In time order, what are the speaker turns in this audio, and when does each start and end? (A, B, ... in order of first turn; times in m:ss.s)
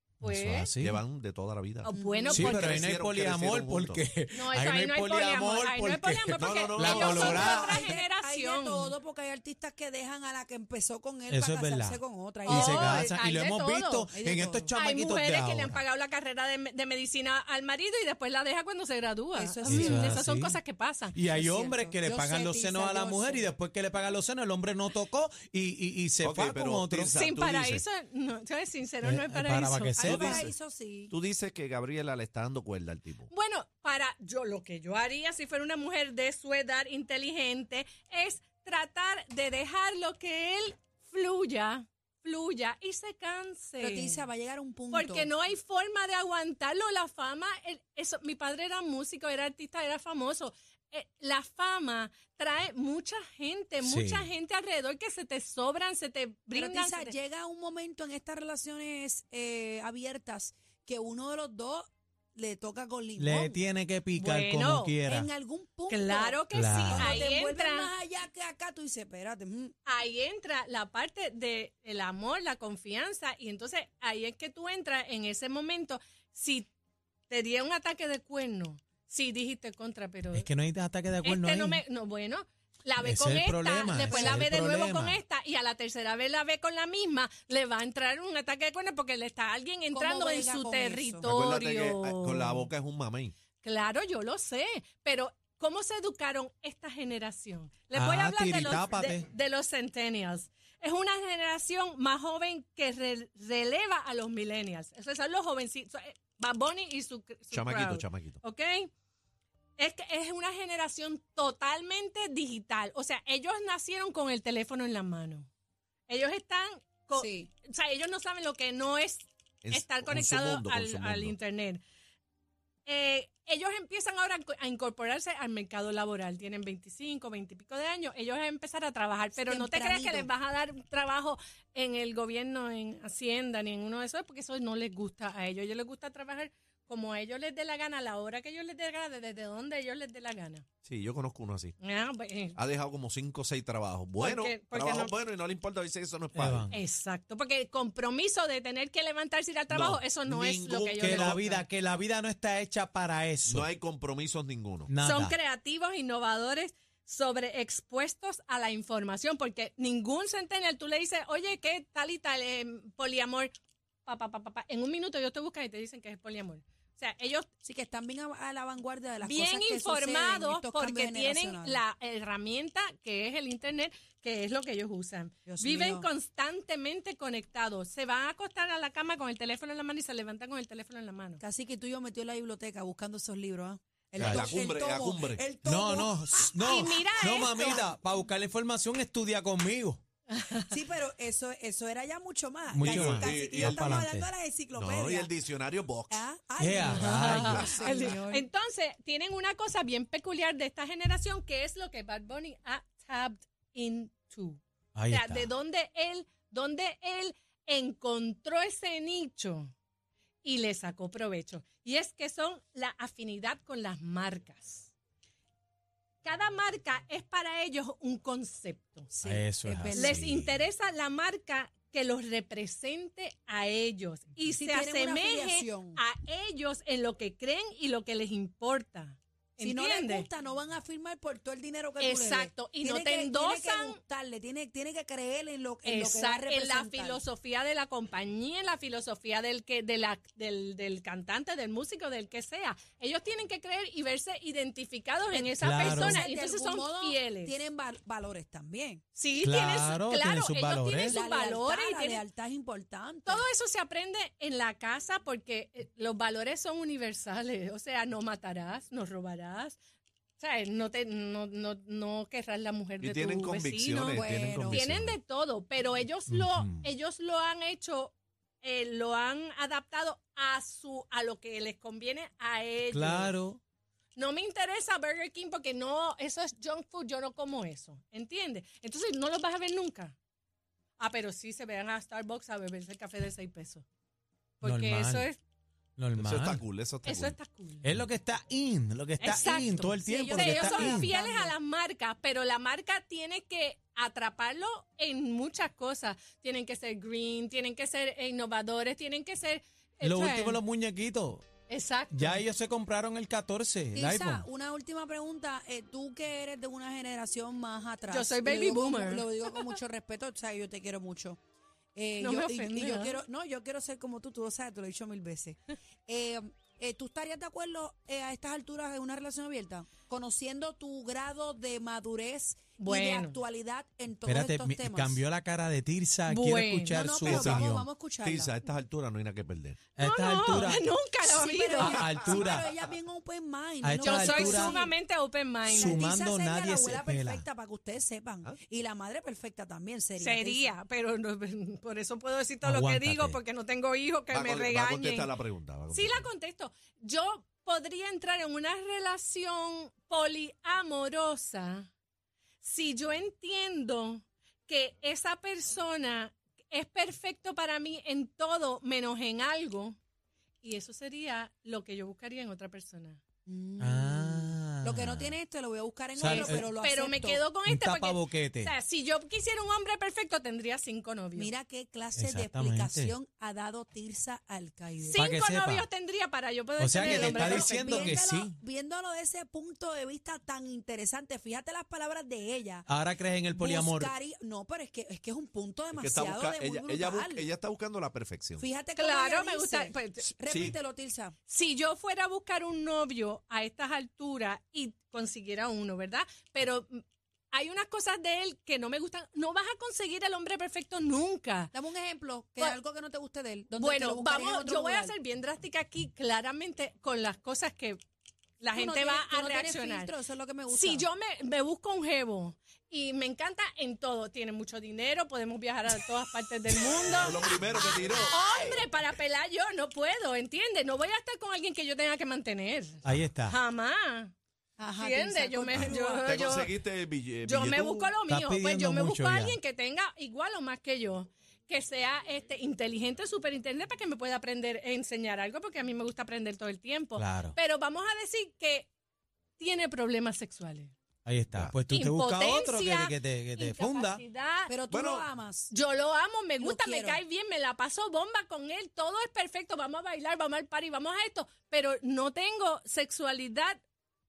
0:00.2-0:00.7 A
0:00.2-0:01.0 B
0:00.8-0:04.0 C
0:01.8-0:02.8 A
0:01.9-0:02.4 D
0:02.3-0:07.9 B
0:04.3-0:08.9 A
0:06.4-0:07.6 C
0:07.1-0:13.1 D
0:11.3-0:15.8 B
0:12.5-0:14.1 A
0:14.1-0:14.7 D
0:14.7-0:21.2 A
0:19.3-0:20.2 D
0:19.6-0:20.6 B
0:21.1-0:27.2 B
0:21.3-0:23.5 D
0:26.2-0:27.8 C
0:27.1-0:30.3 A
0:29.0-0:30.5 B
0:30.0-0:31.1 D
0:30.1-0:30.5 C
0:31.1-0:33.3 C
0:33.3-0:44.2 A
0:43.8-0:45.3 D
0:44.9-0:57.1 A
0:53.8-0:54.3 B
0:56.5-1:03.6 D
1:03.2-1:05.3 B
1:04.2-1:04.9 A
1:05.0-1:09.8 D
1:05.9-1:07.9 A
1:06.5-1:07.2 B
1:09.9-1:16.7 A
1:17.3-1:20.5 A
1:20.3-1:21.8 B
1:21.2-1:32.7 A
1:23.0-1:25.2 B
1:24.1-1:24.5 D
1:29.9-1:31.3 D
1:31.2-1:33.4 C
1:33.6-1:48.9 A
1:37.9-1:39.3 B
1:47.5-1:48.4 C
1:49.8-1:55.5 A
1:56.1-2:01.8 A
1:57.2-1:57.5 D
1:59.6-2:01.4 C
2:02.9-2:20.6 A
2:09.4-2:10.3 D
2:20.8-2:21.8 C
2:21.8-2:22.6 A
2:22.6-2:26.8 C
2:24.2-2:25.1 A
2:26.3-2:26.7 B
2:26.7-2:31.6 A
2:29.7-2:31.4 C
2:31.0-2:33.7 B
2:33.5-2:34.9 C
2:34.9-2:35.4 B
2:35.0-2:43.5 A
2:44.0-2:47.5 A
2:47.6-2:51.8 D
2:49.2-3:01.4 A
2:55.5-2:56.1 D
3:01.4-3:06.8 D
3:04.2-3:05.4 C
3:04.2-3:04.6 B
3:05.6-3:10.0 B
3:06.6-3:07.8 A
3:07.4-3:07.8 D
3:10.3-3:10.8 A
3:10.7-3:15.3 D
3:12.7-3:14.3 B
3:12.8-3:14.1 C
3:14.8-3:16.2 C
3:16.1-3:18.5 D
3:16.6-3:17.8 B
3:17.0-3:29.7 A
3:17.0-3:18.1 C
3:25.0-3:25.5 B
3:30.4-3:34.9 A
3:36.2-3:39.1 A
3:39.1-3:40.2 D
3:39.2-3:40.6 B
3:39.9-3:50.3 A
3:44.4-3:46.0 D
3:49.6-3:57.2 D
3:52.0-3:54.0 A
3:55.8-4:07.5 A
4:05.3-4:09.0 D
4:05.6-4:06.2 B
4:09.2-4:12.2 A
4:09.4-4:11.2 B
4:11.1-4:13.4 D
4:13.2-4:19.8 A
4:20.4-4:33.3 A
4:23.0-4:25.2 C
4:24.1-4:24.8 D
4:26.3-4:26.9 B
4:32.9-4:33.6 B
4:34.2-4:40.2 A
4:41.0-4:43.8 A
4:44.6-4:45.4 A
4:44.6-4:45.3 B
4:46.0-4:46.6 B
4:46.2-4:47.4 C
4:47.0-4:47.8 A
4:47.8-4:51.1 B
4:49.2-5:00.6 A
4:50.0-4:51.5 D
5:00.0-5:01.5 B
5:01.7-5:02.4 A
5:02.1-5:04.5 B
5:04.0-5:11.4 D
5:08.1-5:09.7 A
5:12.0-5:25.2 D
5:12.2-5:13.2 A
5:22.8-5:23.4 A
5:24.2-5:27.9 B
5:26.3-5:27.0 A
5:26.9-5:28.5 D
5:27.2-5:27.6 C
5:28.2-5:29.8 C
5:30.0-5:30.8 B
5:30.0-5:32.0 A
5:31.2-5:34.9 D
5:31.8-5:32.7 B
5:31.9-5:32.9 C
5:33.8-5:34.8 B
5:34.0-5:36.0 A
5:35.7-5:37.4 B
5:35.7-5:40.7 D
5:40.2-5:45.3 A
5:42.6-5:43.4 B
5:44.3-5:46.3 C
5:45.9-5:51.9 A
5:52.6-6:00.0 A
6:00.6-6:03.2 A
6:03.5-6:07.4 D
6:03.8-6:05.3 B
6:06.2-6:06.6 B
6:06.2-6:11.5 A
6:07.7-6:08.7 B
6:11.3-6:15.2 D
6:12.2-6:13.2 B
6:15.0-6:18.2 A
6:15.2-6:15.8 B
6:16.8-6:18.5 B
6:17.0-6:22.9 D
6:22.9-6:24.1 B
6:23.5-6:27.4 D
6:25.9-6:28.7 C
6:28.6-6:31.4 D
6:29.0-6:30.3 A
6:30.5-6:30.8 C
6:31.5-6:41.7 A
6:41.7-6:45.1 D
6:43.8-6:48.0 A
6:48.6-6:50.1 A
6:48.7-6:51.1 D
6:50.7-6:57.5 A
6:57.1-6:58.4 C
6:57.7-6:58.5 D
6:58.2-7:04.3 A
7:03.0-7:03.5 B
7:04.8-7:06.3 D
7:05.0-7:06.7 A
7:06.2-7:08.1 C
7:07.4-7:18.9 A
7:08.3-7:09.6 B
7:17.2-7:17.6 B
7:19.6-7:21.0 A
7:21.2-7:24.2 B
7:21.9-7:24.7 A
7:24.7-7:25.7 D
7:24.9-7:25.2 C
7:25.7-7:33.8 A
7:26.6-7:27.2 D